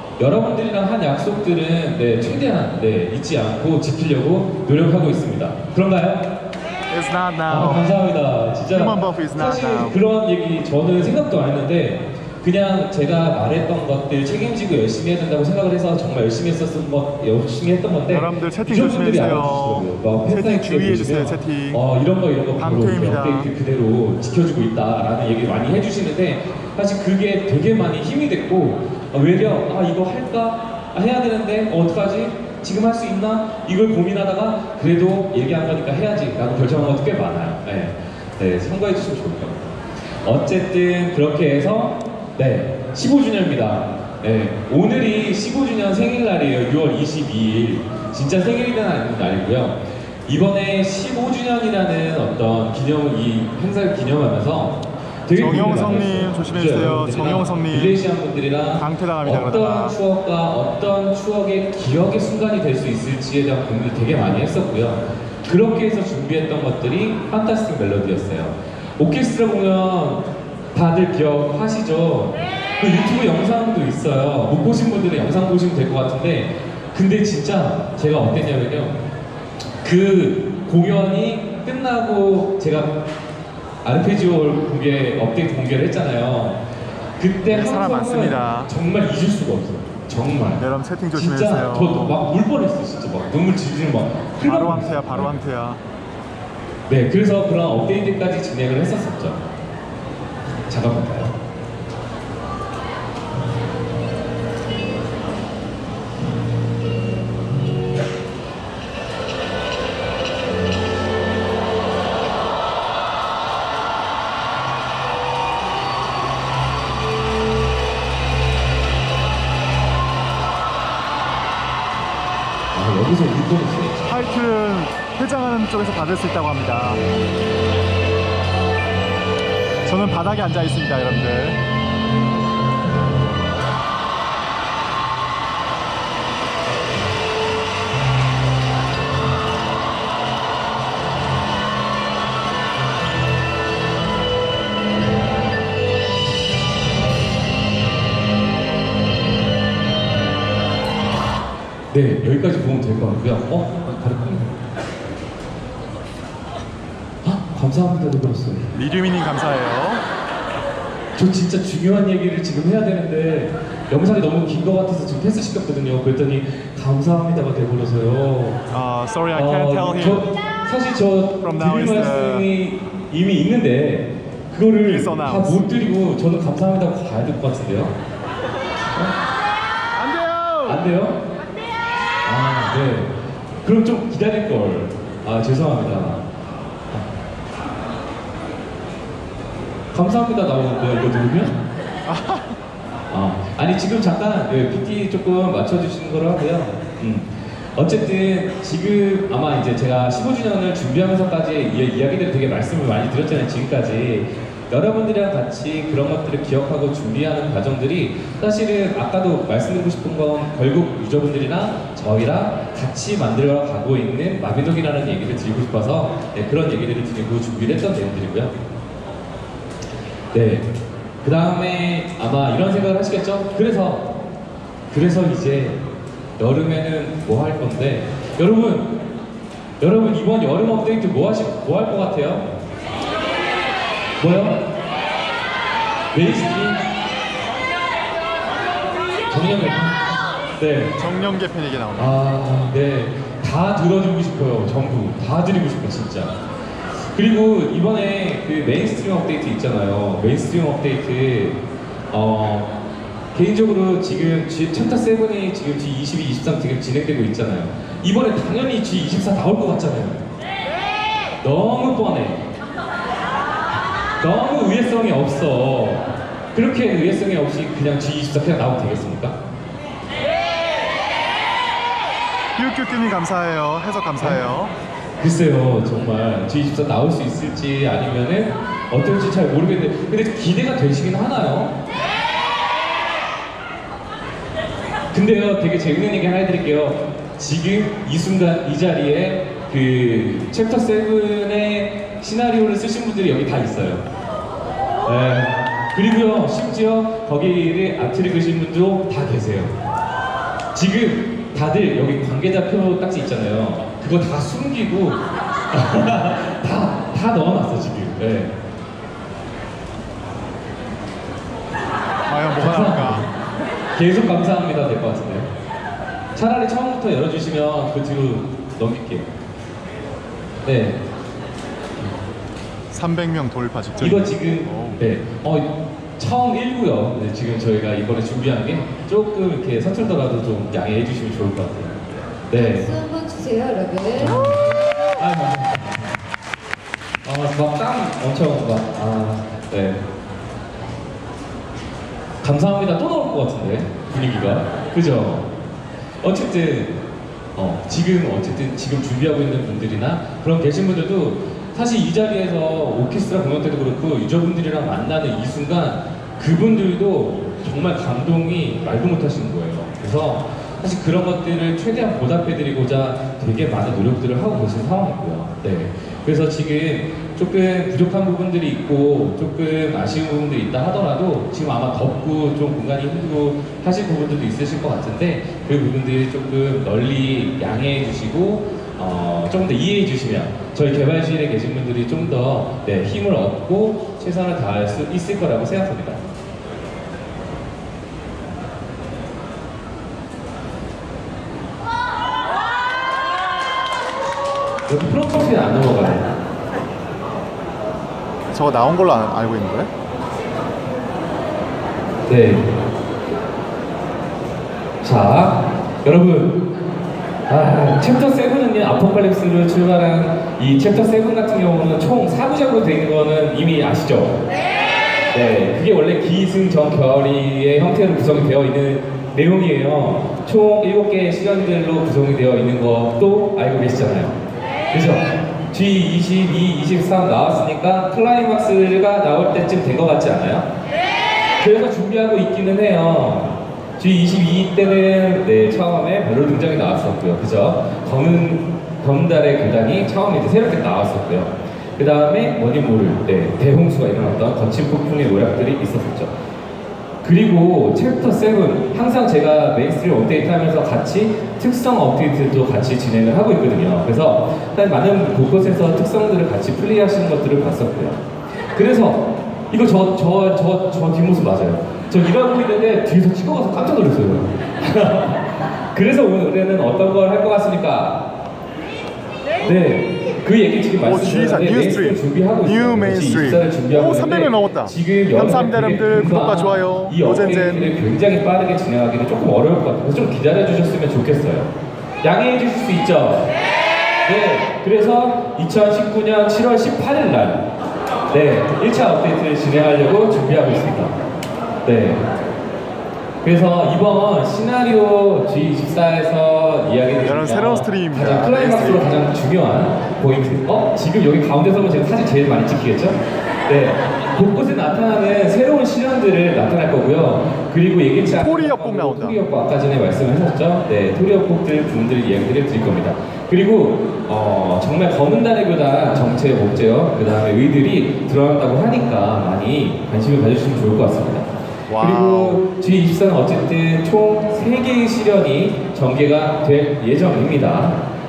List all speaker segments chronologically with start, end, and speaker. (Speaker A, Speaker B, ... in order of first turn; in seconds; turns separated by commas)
Speaker A: 0.2-6.3, Speaker B: 6.9-7.9, Speaker A: 7.5-39.6, Speaker B: 8.7-10.0, Speaker B: 18.1-21.8, Speaker B: 22.6-23.5, Speaker A: 40.2-79.0, Speaker B: 55.3-58.0, Speaker B: 58.8-60.0, Speaker A: 79.8-83.0, Speaker A: 83.8-86.6, Speaker A: 87.2-95.4, Speaker B: 87.5-88.7, Speaker B: 90.6-92.2, Speaker B: 94.4-95.8, Speaker A: 96.9-99.4, Speaker A: 100.7-101.3, Speaker A: 122.7-124.2, Speaker B: 124.0-127.0, Speaker B: 129.8-131.6, Speaker A: 151.9-154.5, Speaker A: 157.2-158.8, Speaker B: 158.7-160.0, Speaker A: 161.2-168.6, Speaker B: 168.7-170.3, Speaker A: 169.3-177.9, Speaker B: 171.4-172.5, Speaker B: 174.8-175.7, Speaker B: 179.9-180.8, Speaker A: 180.7-181.2, Speaker A: 182.2-183.1, Speaker A: 183.6-186.2, Speaker A: 189.9-191.6, Speaker B: 192.1-192.6, Speaker A: 193.1-218.5, Speaker A: 220.3-220.7, Speaker A: 221.2-224.1, Speaker A: 224.9-225.8, Speaker A: 226.4-229.0, Speaker A: 229.8-232.5, Speaker A: 234.2-234.6, Speaker A: 236.1-236.8, Speaker A: 239.3-240.1, Speaker A: 240.6-240.9, Speaker B: 241.0-242.2, Speaker A: 241.9-246.4, Speaker A: 247.1-251.6, Speaker A: 252.1-252.8, Speaker A: 253.3-260.2, Speaker A: 261.4-262.4, Speaker A: 264.2-269.4, Speaker B: 272.6-274.7, Speaker A: 275.2-281.8, Speaker A: 285.1-294.0, Speaker A: 295.0-299.7, Speaker A: 300.7-305.2, Speaker A: 305.7-308.5, Speaker B: 312.3-313.3, Speaker A: 312.6-313.3, Speaker A: 313.9-315.5, Speaker A: 316.3-319.3, Speaker A: 320.6-321.0, Speaker B: 322.9-325.0, Speaker A: 324.0-332.9, Speaker C: 332.5-334.5, Speaker A: 334.2-336.2, Speaker A: 337.2-340.0, Speaker A: 342.4-345.5, Speaker A: 346.2-347.0, Speaker A: 347.6-386.2, Speaker A: 394.9-396.3, Speaker B: 398.5-399.9, Speaker A: 402.3-402.7, Speaker A: 405.0-406.6, Speaker A: 407.5-414.4, Speaker A: 415.3-424.4, Speaker A: 424.9-430.7, Speaker A: 431.6-446.3, Speaker A: 447.2-458.2, Speaker A: 458.7-468.2, Speaker A: 469.6-481.7, Speaker B: 471.0-477.9, Speaker A: 482.2-483.5, Speaker A: 484.2-487.7, Speaker A: 488.3-491.1, Speaker A: 491.8-492.2, Speaker A: 493.4-521.5, Speaker B: 497.2-499.1, Speaker B: 508.3-509.4, Speaker B: 521.9-522.6, Speaker A: 522.0-528.0